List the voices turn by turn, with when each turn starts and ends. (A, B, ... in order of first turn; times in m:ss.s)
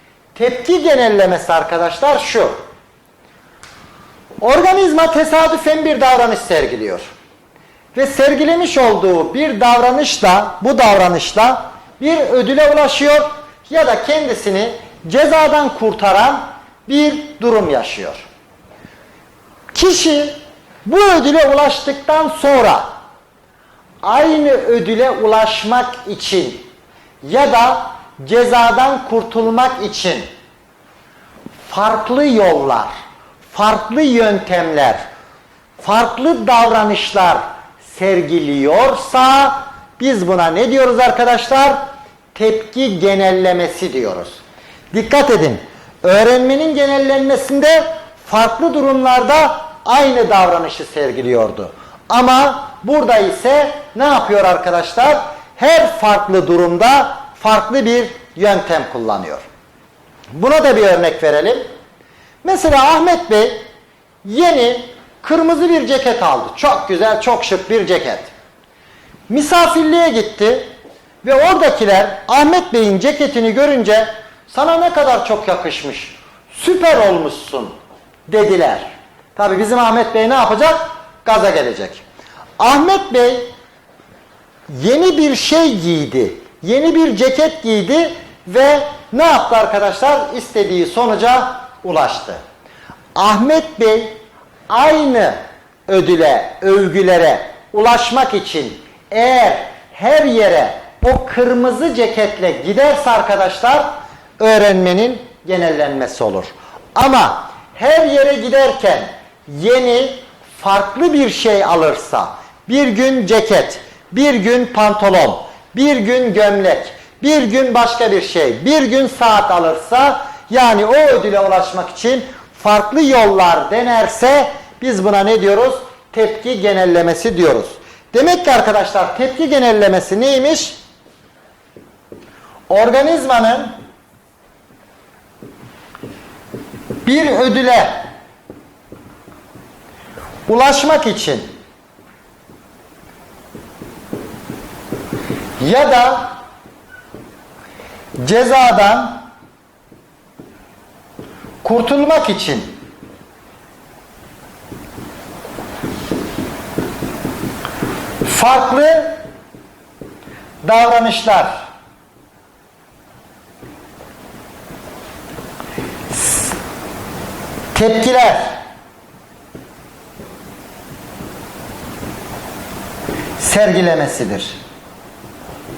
0:00.4-0:02.6 A
0:04.4-0:07.0 A
0:08.0-0:18.3 A
0:19.7-0:22.9 A
0:24.0-0:26.7 A
0:27.2-0:30.2 A
0:31.7-0:32.9 A
0:33.5-0:35.0 A
0:35.8-0:41.8 A
0:42.4-0:44.4 A
0:44.9-0:59.4 A
1:00.3-1:01.6 A
1:02.4-1:03.6 A
1:04.2-1:08.3 A
1:09.3-1:10.7 A
1:11.2-1:17.7 A
1:18.3-1:22.0 A
1:22.6-1:23.5 A
1:24.7-1:32.4 A
1:33.2-1:34.1 A
1:34.7-1:35.4 A
1:35.9-2:10.8 A
2:12.7-2:13.7 A
2:17.0-2:18.0 A
2:20.5-2:21.5 A
2:25.6-2:26.4 A
2:28.2-2:29.2 A
2:31.6-2:32.7 A
2:38.2-2:39.2 A
2:40.6-2:41.6 A
2:47.8-2:48.5 A
2:53.4-2:54.6 A